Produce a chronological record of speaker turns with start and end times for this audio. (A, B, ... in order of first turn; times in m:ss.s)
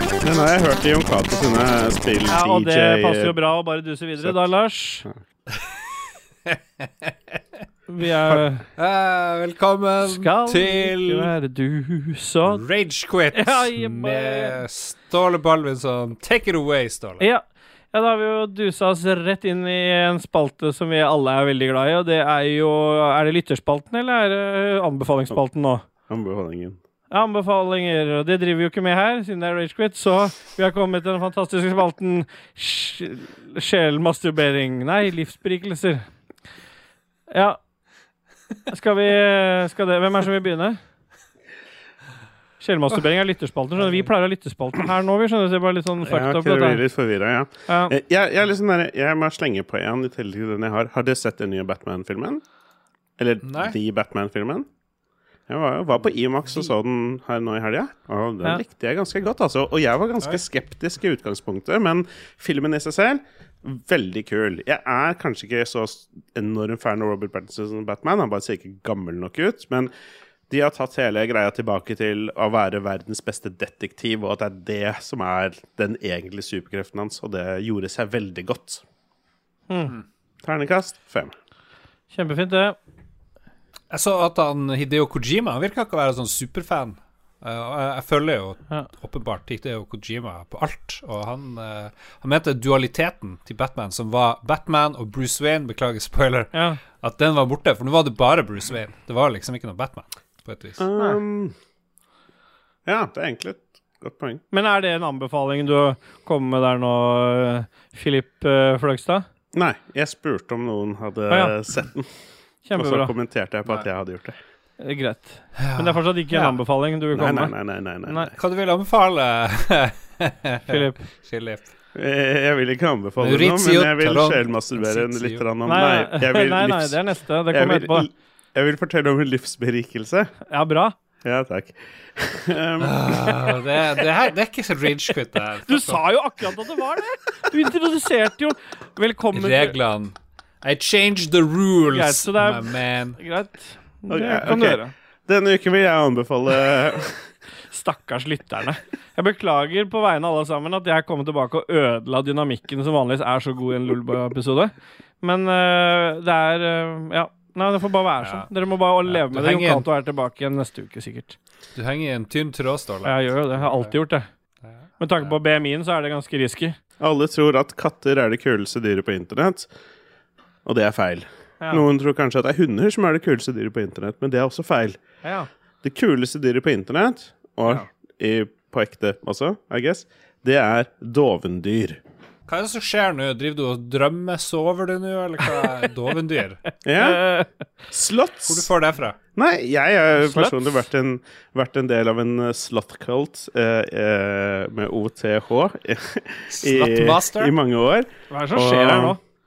0:00.2-0:03.3 A
0:02.3-0:05.0 B
0:05.5-0:07.6 C
0:07.9-0:08.7 B
0:08.3-0:11.3 C
0:10.0-0:12.6 B
0:12.5-0:17.2 C
0:13.3-0:14.6 B
0:17.2-0:25.8 B
0:26.1-0:26.8 A
0:27.1-0:36.1 B
0:37.3-0:37.6 B
0:38.7-0:40.8 B
0:42.6-0:46.8 B
0:46.0-0:52.4 A
0:47.7-0:48.0 B
0:53.2-0:54.7 A
0:53.4-0:53.8 C
0:55.5-1:09.9 A
1:10.5-1:18.8 A
1:20.4-1:21.3 A
1:22.1-1:22.8 B
1:23.9-1:40.8 C
1:36.5-1:36.8 B
1:40.8-1:41.5 A
1:42.8-1:44.4 A
1:44.5-1:49.2 B
1:49.5-1:52.1 A
1:52.6-1:53.1 B
1:52.8-1:54.4 A
1:54.8-1:57.5 B
1:55.6-1:56.6 C
1:57.1-1:58.3 A
1:58.3-2:01.7 C
2:00.7-2:01.0 B
2:02.0-2:10.3 A
2:03.2-2:05.4 C
2:05.7-2:08.1 B
2:10.5-2:11.0 B
2:11.2-2:13.5 A
2:12.8-2:16.0 C
2:15.7-2:19.8 B
2:19.3-2:23.2 C
2:21.9-2:24.9 B
2:24.1-2:27.3 A
2:27.7-2:41.4 B
2:38.2-2:38.5 C
2:39.0-2:39.8 C
2:41.8-2:43.9 C
2:43.0-2:44.3 B
2:44.6-2:45.4 C
2:45.0-2:46.8 B
2:47.0-2:49.7 A
2:50.6-2:55.0 A
2:55.2-2:55.5 B
2:55.8-3:02.0 A
3:02.5-3:06.6 C
3:06.8-3:07.2 A
3:06.9-3:07.5 B
3:07.9-3:08.7 A
3:08.5-3:09.2 C
3:09.4-3:19.2 A
3:10.2-3:10.6 B
3:16.5-3:17.5 C
3:18.3-3:19.2 B